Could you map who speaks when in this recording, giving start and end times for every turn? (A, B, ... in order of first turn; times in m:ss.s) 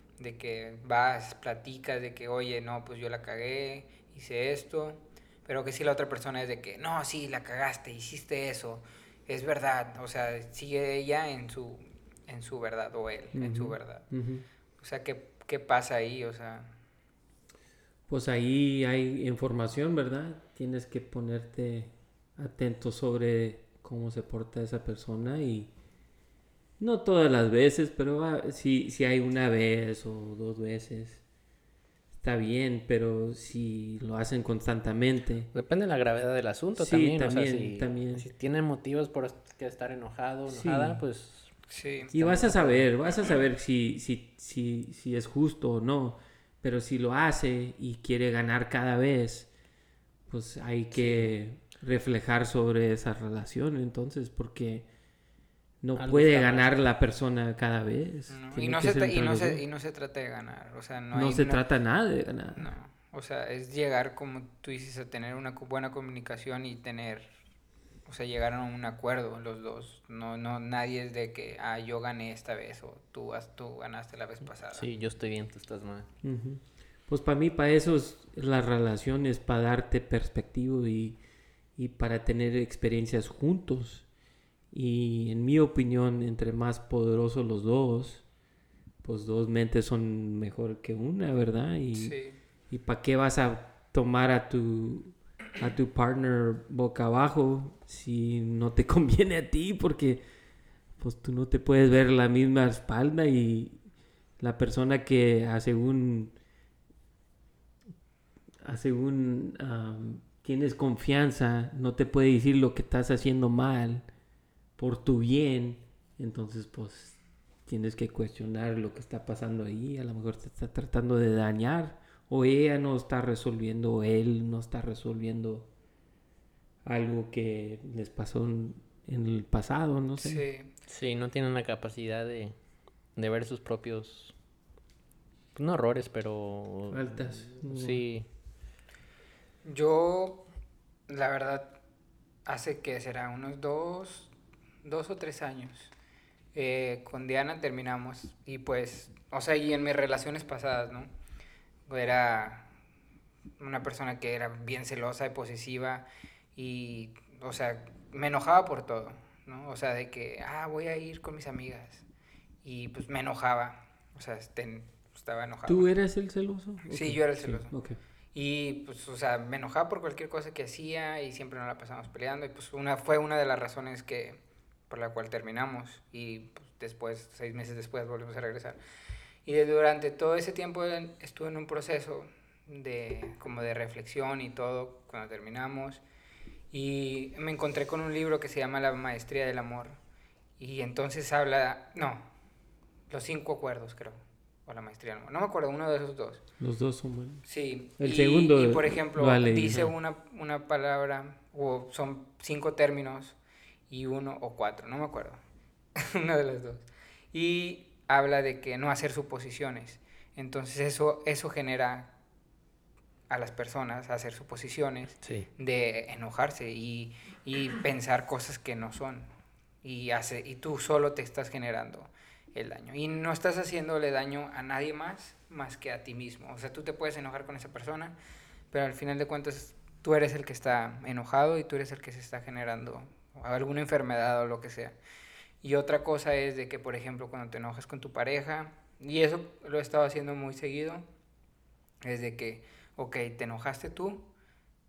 0:00.2-0:14.1 A
0:13.3-0:14.4 B
0:14.8-0:16.7 A
0:18.1-0:25.7 B
0:26.8-0:31.2 B
0:32.2-0:35.5 B
0:35.5-0:41.6 C
0:36.8-0:38.2 B
0:40.5-0:41.0 B
0:41.7-0:42.1 A
0:42.1-0:42.9 C
0:42.1-0:49.5 B
0:50.3-0:54.9 B
0:55.8-0:59.6 B
0:56.0-0:56.8 C
0:58.3-1:01.6 A
1:01.1-1:02.7 B
1:02.5-1:07.3 A
1:08.0-1:14.9 A
1:14.7-1:16.1 C
1:16.2-1:21.2 B
1:21.8-1:24.0 B
1:24.7-1:28.2 B
1:29.0-1:32.2 B
1:31.9-1:32.4 A
1:32.7-1:40.2 B
1:41.0-1:43.8 B
1:44.4-1:46.3 B
1:48.6-1:54.0 B
1:54.8-2:05.7 B
2:06.8-2:10.4 B
2:10.2-2:10.7 A
2:10.9-2:12.5 C
2:13.2-2:14.3 C
2:15.5-2:18.2 C
2:16.9-2:18.0 B
2:19.6-2:20.4 A
2:21.1-2:21.8 A
2:22.4-2:24.3 A
2:24.8-2:25.9 A
2:26.5-2:31.1 A
2:31.9-2:32.7 A
2:33.6-2:42.0 A
2:42.6-2:45.9 A
2:45.7-2:48.0 B
2:46.9-2:47.7 A
2:48.3-2:58.8 A
2:59.4-3:06.0 A
3:06.7-3:10.0 A
3:10.6-3:12.3 A
3:13.1-3:16.4 A
3:16.6-3:17.4 B
3:17.4-3:23.4 A
3:18.0-3:19.9 B
3:23.9-3:25.4 A
3:26.0-3:32.1 A
3:33.3-3:39.3 A
3:39.8-3:48.2 A
3:48.7-3:55.0 A
3:55.6-4:01.0 A
4:02.0-4:04.2 A